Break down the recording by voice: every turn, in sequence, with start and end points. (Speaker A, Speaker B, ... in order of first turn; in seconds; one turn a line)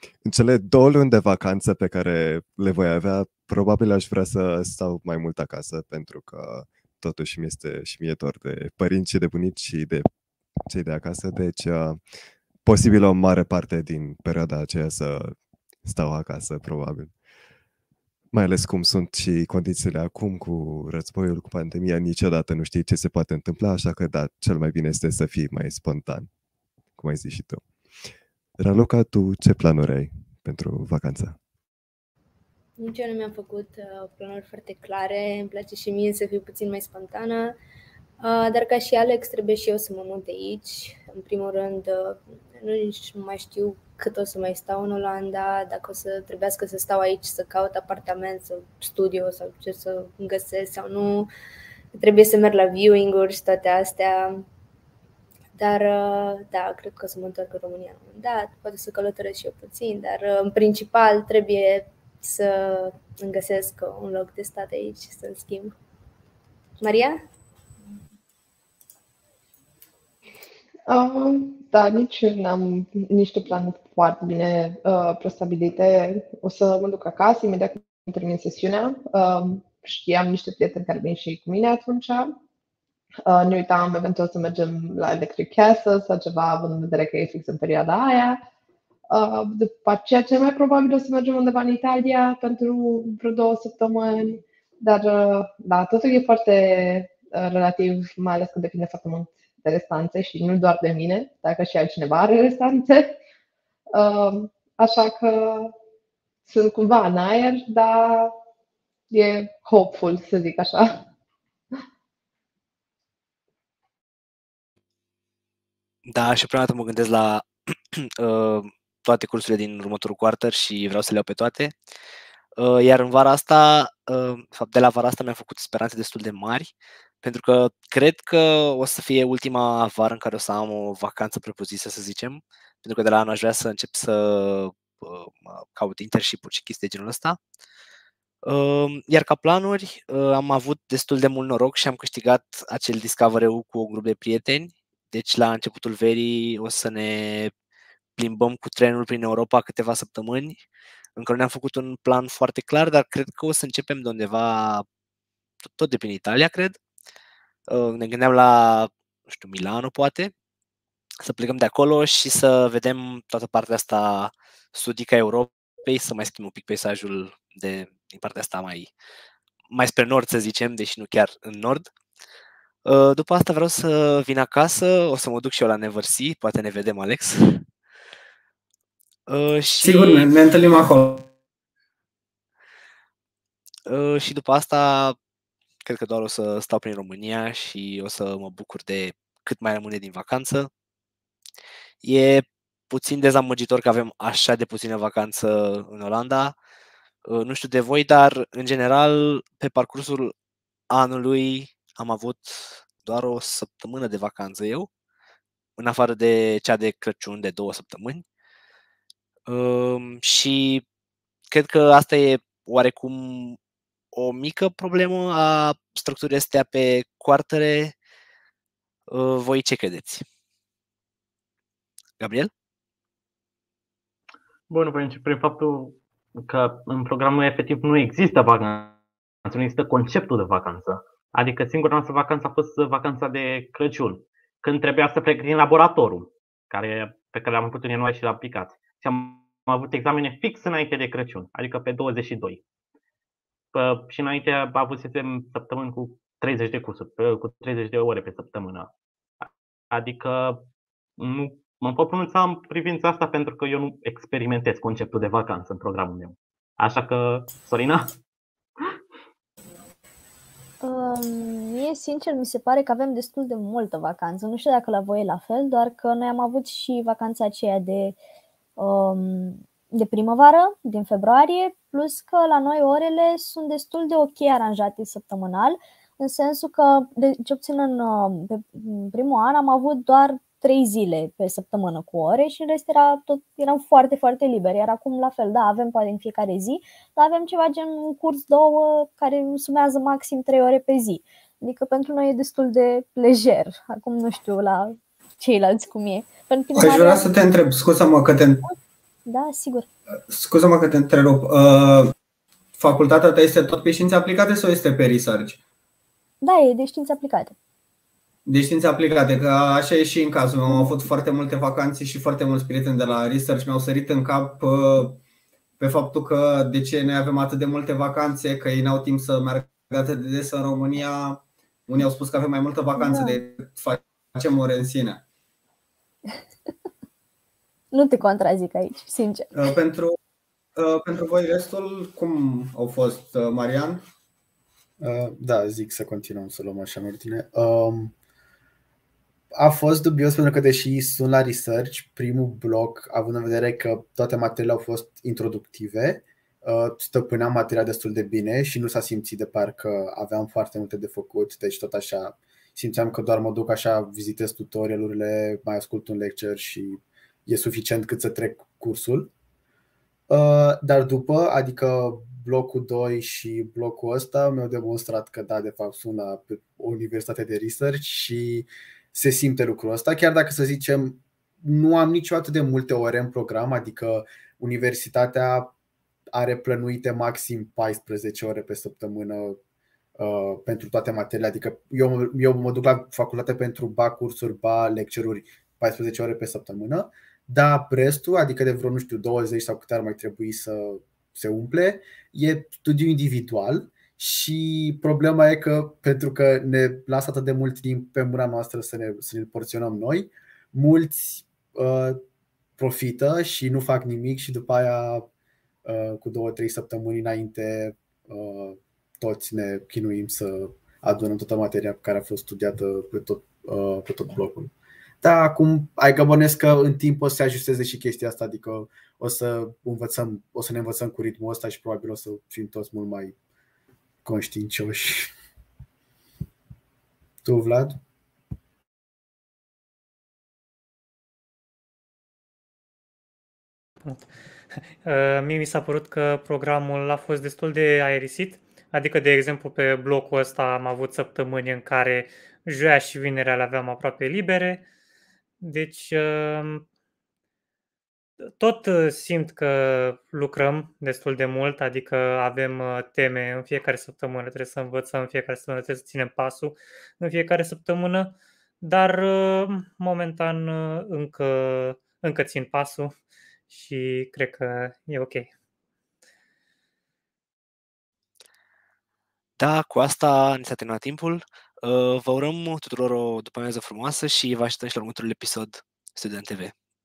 Speaker A: 0.2-10.1
Speaker A: 10.7-12.0
Speaker A: 12.6-17.1
Speaker A: 18.3-26.3
Speaker A: 27.0-27.6
Speaker A: 28.6-31.4
Speaker B: 32.8-37.5
Speaker B: 38.2-51.3
Speaker B: 51.9-54.4
Speaker B: 55.5-65.7
Speaker B: 66.8-67.2
Speaker C: 70.9-82.3
Speaker C: 83.2-88.4
Speaker C: 89.1-103.2
Speaker C: 103.9-105.7
Speaker C: 106.5-108.3
Speaker C: 109.1-111.0
Speaker D: 116.1-121.8
Speaker D: 122.6-137.4
Speaker D: 138.4-147.5
Speaker D: 148.2-150.6
Speaker D: 151.2-154.8
Speaker D: 155.6-156.8
Speaker D: 157.7-160.3
Speaker D: 161.2-168.9
Speaker D: 169.7-171.9
Speaker D: 172.8-177.6
Speaker D: 179.3-180.3
Speaker E: 179.8-181.3
Speaker D: 183.9-185.2
Speaker D: 185.8-190.7
Speaker D: 192.0-196.6
Speaker D: 197.3-200.3
Speaker D: 200.9-204.9
Speaker D: 205.8-208.2
Speaker D: 209.5-210.8
Speaker D: 211.5-213.6
Speaker D: 214.1-217.9
Speaker D: 219.1-220.2
Speaker D: 222.2-222.5
Speaker F: 224.7-242.6
Speaker F: 243.7-250.7
Speaker F: 251.2-258.1
Speaker G: 260.8-268.2
Speaker G: 268.8-297.3
Speaker E: 296.7-298.6
Speaker G: 299.2-299.9
Speaker E: 300.3-302.1
Speaker E: 302.8-305.6
Speaker G: 306.4-307.5
Speaker E: 308.4-315.2
Speaker E: 315.8-325.2
Speaker G: 323.0-323.4
Speaker G: 327.9-329.5
Speaker E: 329.5-330.2
Speaker E: 330.8-334.0
Speaker H: 335.0-338.1
Speaker H: 339.5-359.3
Speaker H: 360.3-375.7
Speaker H: 376.3-379.6
Speaker H: 380.2-402.2
Speaker H: 402.8-405.3
Speaker H: 405.8-423.3
Speaker H: 424.2-425.3
Speaker H: 427.4-428.0
Speaker I: 435.0-444.8
Speaker I: 445.6-446.9
Speaker I: 448.6-463.1
Speaker I: 463.7-465.5
Speaker D: 469.6-476.7